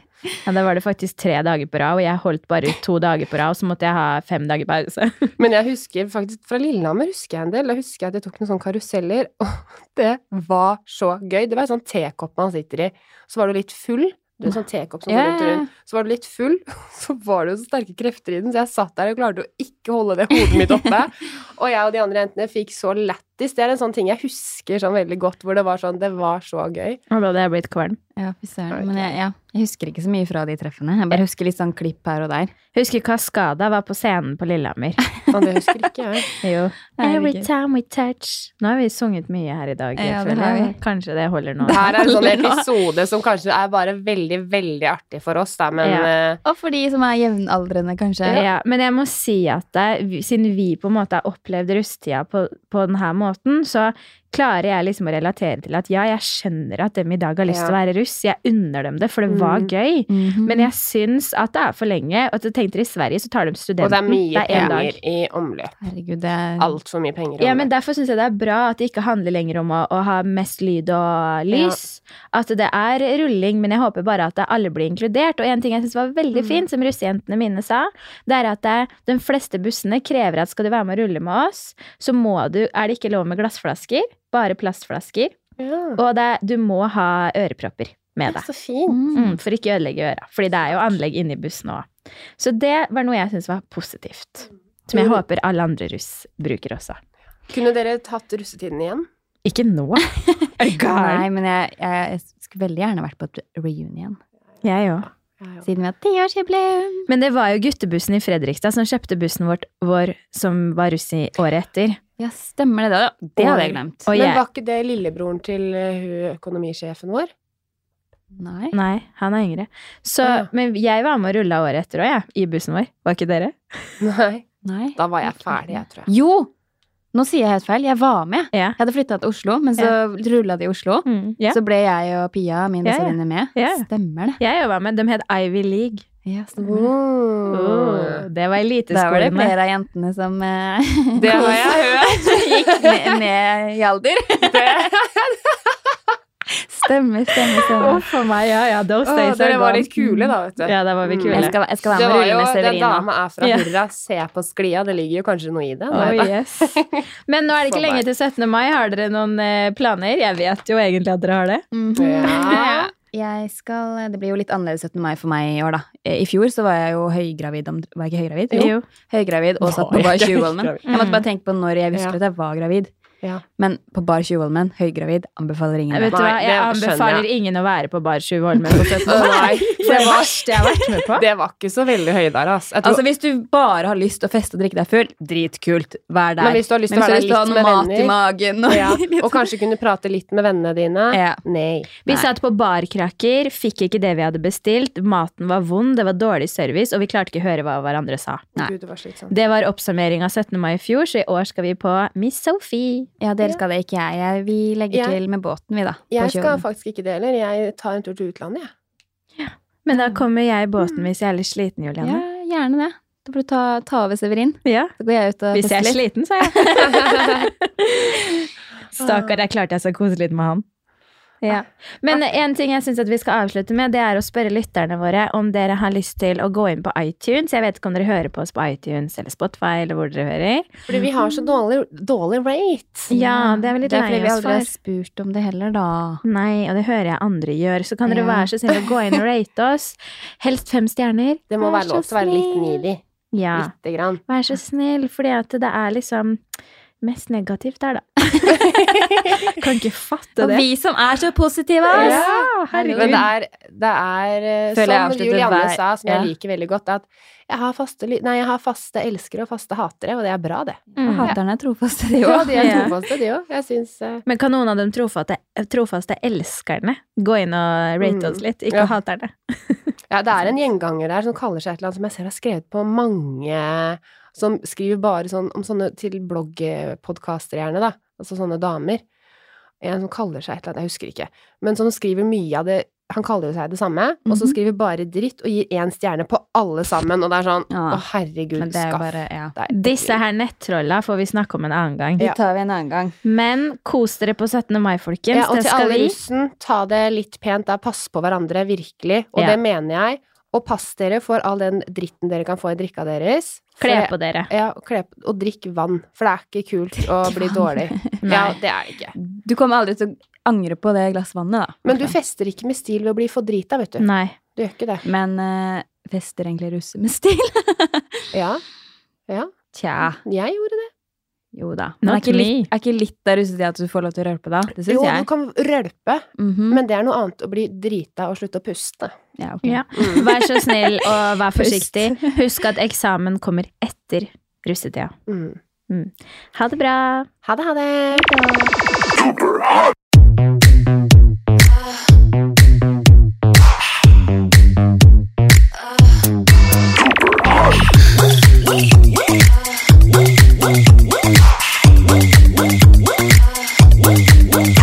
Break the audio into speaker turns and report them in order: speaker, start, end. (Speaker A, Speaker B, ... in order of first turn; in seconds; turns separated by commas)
Speaker A: 0.5-5.3, Speaker B: 5.4-27.0, Speaker C: 15.1-15.7, Speaker C: 20.5-20.9, Speaker A: 27.1-28.0, Speaker C: 28.1-32.5, Speaker B: 28.7-29.1, Speaker A: 32.7-35.0, Speaker B: 35.3-36.3, Speaker A: 36.4-42.1, Speaker C: 37.0-37.5, Speaker C: 40.0-40.7, Speaker C: 41.7-42.7, Speaker B: 41.7-46.4, Speaker A: 45.8-46.1, Speaker C: 46.4-48.4, Speaker A: 48.3-65.0, Speaker B: 57.5-57.7, Speaker B: 59.3-59.7, Speaker C: 60.1-60.7, Speaker B: 63.8-65.8, Speaker C: 64.5-64.8, Speaker C: 65.8-66.8, Speaker B: 66.6-67.7, Speaker A: 67.4-85.3, Speaker B: 71.5-71.8, Speaker B: 76.3-76.6, Speaker B: 85.6-86.0, Speaker A: 86.0-88.5, Speaker B: 88.2-89.0, Speaker C: 88.9-89.4, Speaker A: 89.1-97.0, Speaker B: 94.9-95.2, Speaker B: 97.5-99.0, Speaker A: 99.4-101.3, Speaker C: 100.6-104.2, Speaker A: 104.6-105.1, Speaker B: 105.3-105.6, Speaker C: 105.6-107.1, Speaker A: 107.1-112.0, Speaker C: 112.2-114.1, Speaker B: 113.4-117.3, Speaker A: 114.1-114.4, Speaker C: 118.3-118.7, Speaker A: 118.7-123.9, Speaker B: 120.2-120.5, Speaker B: 124.0-126.1, Speaker C: 124.6-126.5, Speaker C: 127.1-134.4, Speaker A: 131.0-131.6, Speaker A: 132.8-133.9, Speaker A: 134.4-136.0, Speaker C: 136.2-136.9, Speaker B: 136.6-138.2, Speaker A: 137.5-139.5, Speaker C: 138.9-144.9, Speaker B: 141.2-143.2, Speaker B: 144.5-145.8, Speaker C: 146.5-148.0, Speaker A: 147.8-149.9, Speaker B: 149.1-158.0, Speaker C: 150.0-150.3, Speaker A: 150.6-151.6, Speaker C: 151.3-153.1, Speaker A: 153.4-153.7, Speaker A: 155.9-162.8, Speaker C: 161.7-172.9, Speaker B: 162.0-162.9, Speaker A: 168.5-168.8, Speaker B: 169.6-171.0, Speaker A: 170.9-171.2, Speaker C: 173.6-176.2, Speaker A: 175.9-181.3, Speaker B: 176.1-177.2, Speaker B: 179.0-183.0, Speaker C: 179.0-180.2, Speaker C: 182.8-189.5, Speaker B: 186.4-188.2, Speaker B: 188.7-191.9, Speaker C: 191.1-191.4, Speaker A: 192.1-198.4, Speaker B: 198.6-199.3, Speaker A: 199.3-203.1, Speaker C: 203.2-206.6, Speaker B: 204.9-205.2, Speaker B: 206.1-208.7, Speaker A: 209.4-212.2, Speaker C: 209.9-210.2, Speaker C: 212.0-217.1, Speaker A: 214.6-214.9, Speaker A: 215.5-220.6, Speaker B: 219.0-219.3, Speaker A: 221.4-230.9, Speaker B: 230.9-233.1, Speaker A: 233.1-234.7, Speaker C: 233.1-236.2, Speaker A: 236.2-243.7, Speaker C: 238.1-238.5, Speaker B: 241.5-243.0, Speaker B: 243.6-244.2, Speaker A: 244.3-246.4, Speaker A: 247.0-248.6, Speaker B: 248.8-249.2, Speaker A: 249.3-250.7, Speaker C: 250.4-253.3, Speaker A: 251.9-253.2, Speaker B: 251.9-261.4, Speaker C: 254.7-256.3, Speaker A: 261.0-261.3, Speaker C: 261.0-262.9, Speaker B: 262.2-264.2, Speaker A: 262.5-262.9, Speaker A: 264.2-269.9, Speaker B: 268.0-268.9, Speaker B: 270.1-279.0, Speaker B: 279.8-290.2, Speaker C: 284.3-284.6, Speaker C: 287.7-288.0, Speaker C: 288.6-289.5, Speaker A: 289.7-292.3, Speaker C: 292.2-293.1, Speaker A: 293.2-296.1, Speaker B: 295.3-309.1, Speaker A: 303.8-304.5, Speaker C: 307.2-308.1, Speaker A: 308.2-308.6, Speaker C: 309.1-312.1, Speaker B: 311.8-315.0, Speaker A: 314.0-314.4, Speaker C: 315.0-318.3, Speaker B: 318.3-318.6, Speaker B: 319.3-320.9, Speaker C: 319.7-320.2, Speaker C: 321.5-325.2, Speaker A: 322.0-322.7, Speaker B: 324.9-329.1, Speaker C: 326.4-326.8, Speaker C: 329.4-330.3, Speaker A: 329.6-335.1, Speaker B: 329.9-330.2, Speaker C: 331.5-332.3, Speaker B: 335.3-335.6, Speaker A: 335.9-337.3, Speaker B: 337.4-338.3, Speaker A: 338.2-338.7